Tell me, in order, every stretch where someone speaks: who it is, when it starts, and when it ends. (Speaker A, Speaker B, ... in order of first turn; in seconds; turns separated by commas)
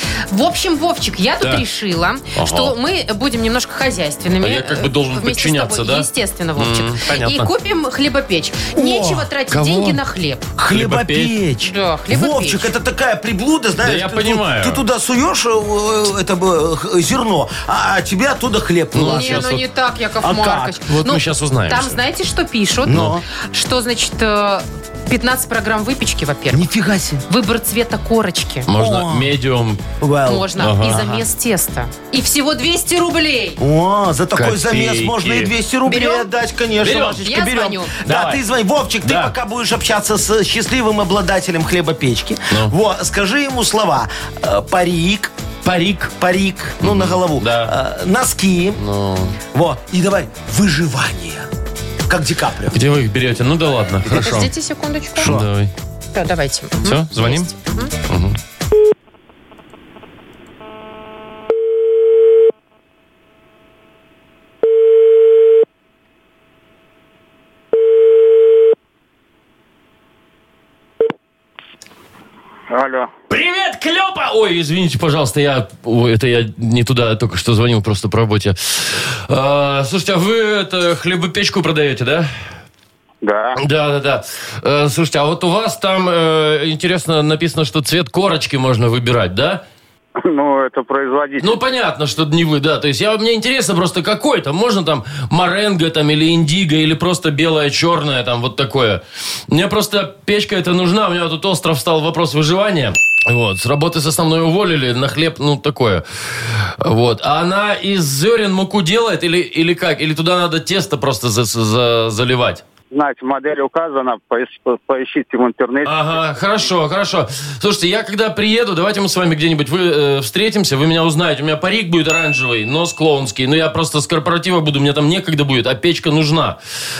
Speaker A: 0.3-10.5, Speaker B: 2.3-2.7, Speaker B: 4.4-7.5, Speaker C: 8.7-9.3, Speaker B: 9.5-10.0, Speaker C: 10.6-19.5, Speaker B: 10.7-11.4, Speaker A: 11.6-12.7, Speaker B: 13.8-14.8, Speaker B: 18.9-19.6, Speaker A: 19.1-26.7, Speaker C: 20.2-20.8, Speaker B: 20.9-22.0, Speaker C: 22.8-23.2, Speaker B: 22.9-23.2, Speaker C: 26.5-27.2, Speaker A: 27.3-28.7, Speaker B: 28.7-29.8, Speaker C: 28.7-29.3, Speaker C: 30.0-31.2, Speaker A: 30.3-33.6, Speaker B: 30.6-31.0, Speaker C: 33.6-45.3, Speaker B: 34.3-35.5, Speaker A: 35.8-36.3, Speaker B: 36.8-37.2, Speaker A: 36.9-37.9, Speaker B: 38.0-38.4, Speaker B: 39.0-39.3, Speaker B: 42.5-42.7, Speaker B: 45.6-46.1, Speaker C: 46.1-48.8, Speaker B: 46.8-47.7, Speaker B: 48.8-49.4, Speaker C: 49.5-51.5, Speaker C: 52.1-52.8, Speaker B: 52.7-54.5, Speaker A: 54.1-55.4, Speaker B: 55.2-55.7, Speaker A: 56.1-57.9, Speaker B: 56.8-57.5, Speaker B: 58.1-58.4, Speaker D: 72.7-73.1, Speaker B: 73.3-82.3, Speaker D: 83.2-83.6, Speaker B: 83.6-89.6, Speaker D: 90.2-91.5, Speaker B: 91.4-112.6, Speaker D: 112.9-116.2, Speaker B: 115.8-126.6